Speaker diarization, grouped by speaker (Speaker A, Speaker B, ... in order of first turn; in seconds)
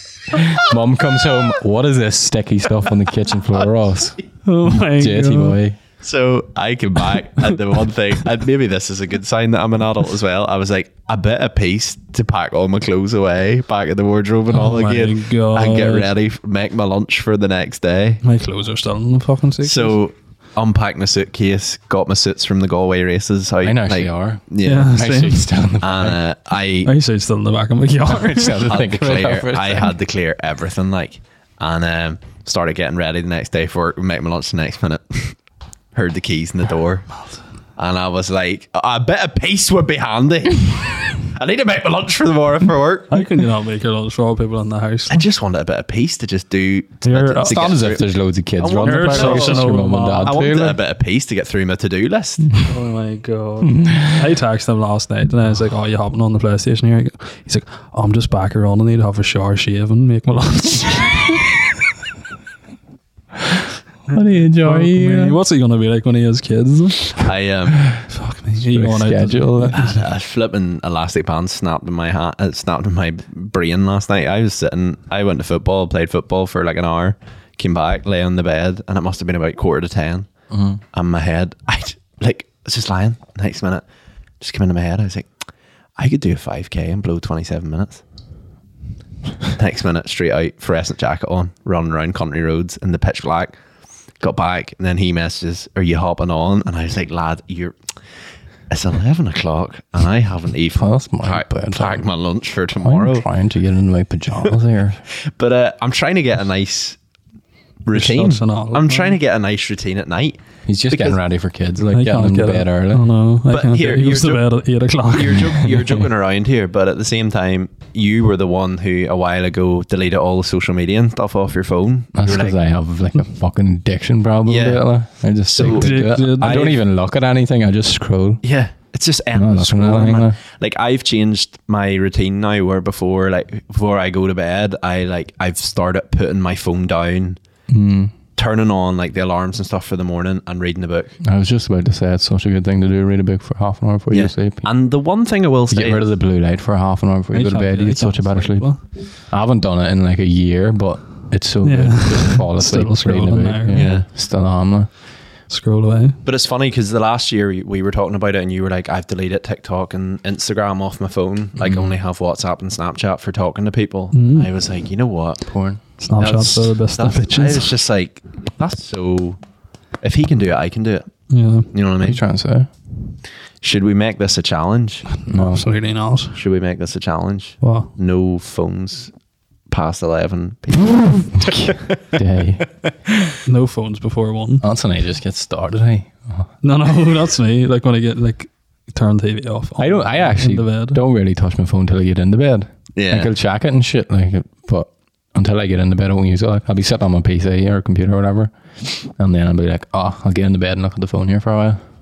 Speaker A: 0.3-5.8, 23.6-26.2, 28.1-30.0, 47.4-50.8, 53.8-54.1, 64.1-65.4, 68.6-69.9, 80.5-80.8, 100.8-102.1, 102.8-105.0, 110.7-113.1, 115.6-116.0, 122.1-128.4, 129.3-130.4, 137.7-138.1, 141.2-144.7, 145.7-148.7, 149.3-154.9, 161.6-161.9, 165.4-165.8, 172.0-172.7, 175.3-175.7, 181.4-182.7, 184.6-186.5, 189.8-201.8
Speaker B: 4.5-5.6, 14.5-16.1, 18.2-20.0, 24.6-25.5, 26.8-28.8, 43.1-45.2, 47.0-47.7, 48.8-50.4, 52.6-61.5, 64.1-67.3, 68.1-70.0, 107.9-109.2, 111.9-115.6, 125.6-126.7, 147.3-148.8, 151.6-153.9, 155.5-156.2, 164.1-164.5, 166.0-167.7, 171.3-171.7, 175.2-176.4, 177.6-177.9, 183.4-184.6, 186.6-191.0
Speaker C: 6.0-18.2, 19.6-24.9, 25.8-26.9, 28.7-35.4, 35.9-37.1, 37.8-43.2, 45.1-52.5, 67.2-67.8, 69.7-80.3, 80.9-83.8, 84.4-85.3, 86.0-88.0, 89.5-93.5, 94.2-97.8, 98.7-103.3, 105.2-107.0, 107.8-111.2, 113.5-114.4, 115.1-122.6, 124.5-124.8, 125.4-126.8, 128.4-137.4, 138.4-141.2, 144.1-146.1, 153.7-154.1, 156.2-165.4, 166.2-169.4, 170.0-171.1, 171.7-172.2, 173.6-175.1, 176.3-179.1, 179.7-181.8, 192.9-193.3